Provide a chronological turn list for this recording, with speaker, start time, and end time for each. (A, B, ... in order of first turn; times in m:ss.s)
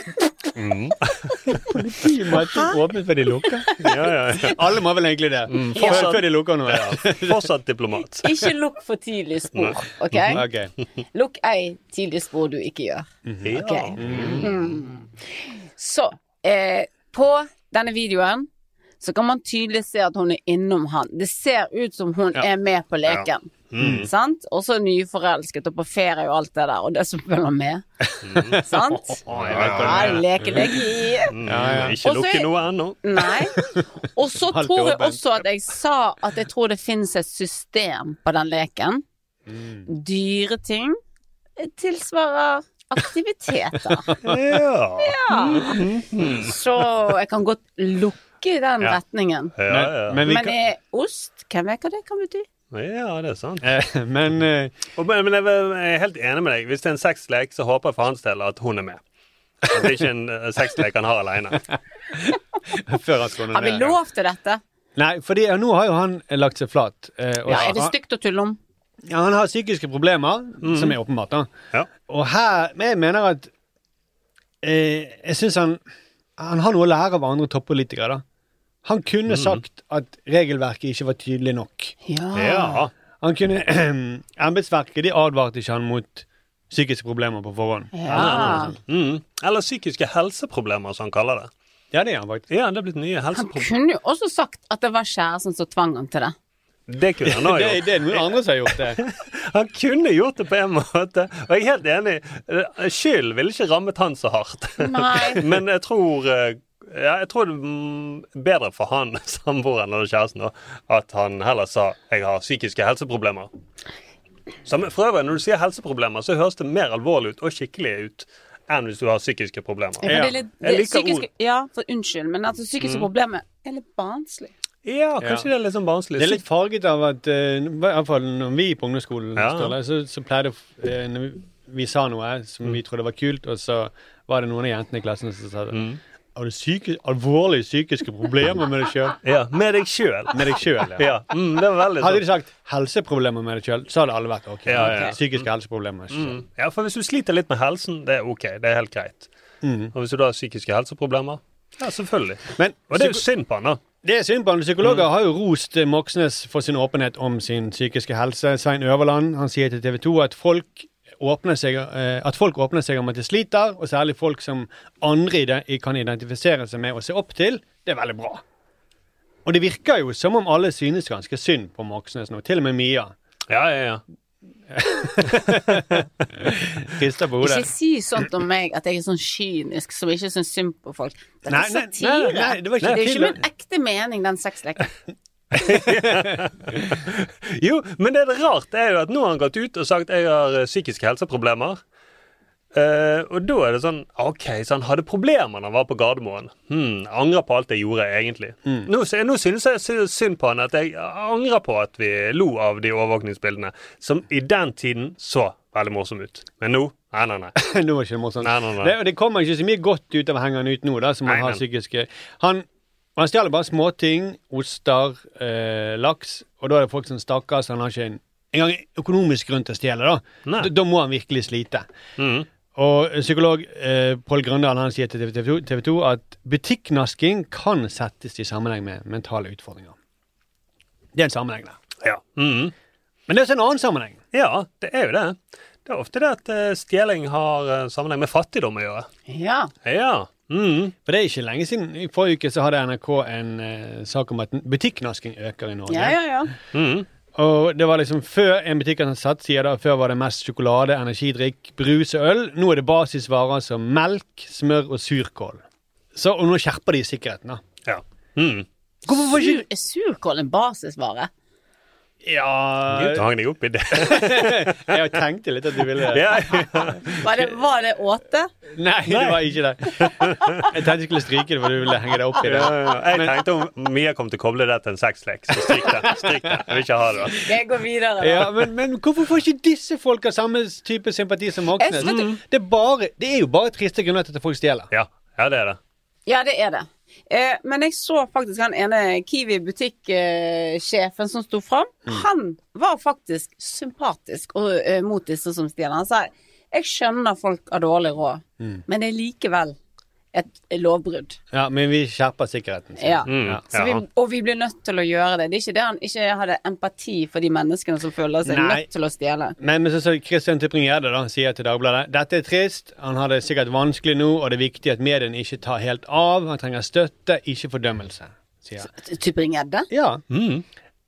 0:00.6-0:01.6 A
0:01.5-0:03.8 B
0:03.8-0:04.6 A
0:04.4-0:07.4 B
0:05.5-0:08.2 A
0:05.7-0:06.2 C
0:08.2-0:10.4 C
0:09.6-0:10.4 A
0:10.3-0:10.7 B
0:11.1-0:15.1 C
0:13.2-0:14.5 B
0:13.4-0:14.5 A
0:15.8-0:18.5 C
0:19.0-0:27.8 C
0:23.1-0:24.1 A
0:23.8-0:24.1 B
0:28.0-0:30.6 B
0:28.2-0:28.6 A
0:28.5-0:31.3 C
0:29.3-0:30.7 A
0:31.3-0:33.0 A
0:31.4-0:32.0 B
0:32.0-0:32.5 C
0:33.0-0:39.0 C
0:33.6-0:33.8 B
0:34.4-0:35.2 B
0:39.5-0:39.9 B
0:39.9-0:41.0 C
0:41.6-0:44.1 C
0:44.1-0:44.4 B
0:44.2-0:46.5 A
0:45.0-0:49.5 C
0:49.6-0:50.2 A
0:49.7-0:50.6 B
0:50.2-0:52.4 C
0:52.7-0:53.6 A
0:53.6-0:54.7 B
0:55.0-0:59.0 A
0:59.6-1:01.6 A
1:02.1-1:03.9 B
1:03.5-1:04.6 C
1:05.0-1:07.9 B
1:07.5-1:08.6 C
1:09.1-1:13.5 B
1:10.6-1:11.0 A
1:14.6-1:15.8 B
1:16.4-1:18.2 B
1:18.8-1:21.9 B
1:19.3-1:19.6 A
1:22.0-1:22.8 C
1:22.3-1:22.9 A
1:23.2-1:28.7 B
1:27.9-1:28.7 C
1:28.1-1:31.5 A
1:31.9-1:32.4 B
1:32.5-1:33.7 A
1:33.3-1:36.3 C
1:36.9-1:53.5 A
1:37.2-1:39.0 B
1:44.8-1:45.4 C
1:54.6-2:01.3 A
2:00.0-2:04.5 C
2:00.0-2:00.4 B
2:02.8-2:03.1 A
2:04.8-2:06.4 A
2:05.2-2:05.5 B
2:06.2-2:15.8 B
2:09.4-2:09.7 A
2:15.7-2:16.0 A
2:16.4-2:19.2 B
2:19.2-2:22.3 A
2:20.3-2:21.1 B
2:22.0-2:26.4 B
2:24.7-2:25.5 A
2:24.8-2:25.1 C
2:26.1-2:29.3 A
2:29.6-2:29.9 B
2:29.9-2:33.8 A
2:32.6-2:33.2 B
2:34.0-2:48.4 B
2:34.8-2:35.0 A
2:49.4-2:53.1 B
2:53.5-2:54.0 A
2:54.7-2:57.7 B
2:55.3-2:55.6 A
2:57.4-3:04.9 C
3:01.5-3:03.4 B
3:05.6-3:06.3 B
3:05.6-3:11.8 A
3:12.7-3:27.5 A
3:27.6-3:32.6 B
3:28.4-3:28.9 A
3:31.2-3:31.6 A
3:33.2-3:41.8 B
3:42.2-3:42.4 A
3:42.7-3:49.9 B
3:51.1-3:51.8 B
3:52.0-3:52.7 A
3:53.3-3:54.2 B
3:54.3-3:59.1 A
3:59.3-3:59.7 C
3:59.8-4:00.9 A
4:01.0-4:06.2 B
4:05.9-4:06.5 C
4:06.7-4:07.1 A
4:07.3-4:15.6 B
4:16.1-4:17.6 B
4:17.8-4:18.6 A
4:19.1-4:21.3 C
4:19.1-4:19.6 B
4:22.2-4:23.3 B
4:22.9-4:25.0 A
4:23.9-4:27.2 B
4:26.0-4:27.2 A
4:27.2-4:28.5 C
4:28.7-4:33.4 B
4:29.1-4:30.6 A
4:32.4-4:37.4 A
4:35.5-4:36.6 B
4:37.3-4:38.6 C
4:38.2-4:44.9 B
4:41.8-4:42.3 C
4:42.0-4:42.4 A
4:44.9-4:45.8 A
4:46.3-4:59.8 C
5:00.3-5:01.4 C
5:01.5-5:03.6 B
5:03.0-5:09.6 C
5:03.3-5:04.0 A
5:08.4-5:08.8 B
5:09.6-5:18.9 B
5:19.0-5:19.9 C
5:19.9-5:20.2 B
5:20.3-5:20.6 A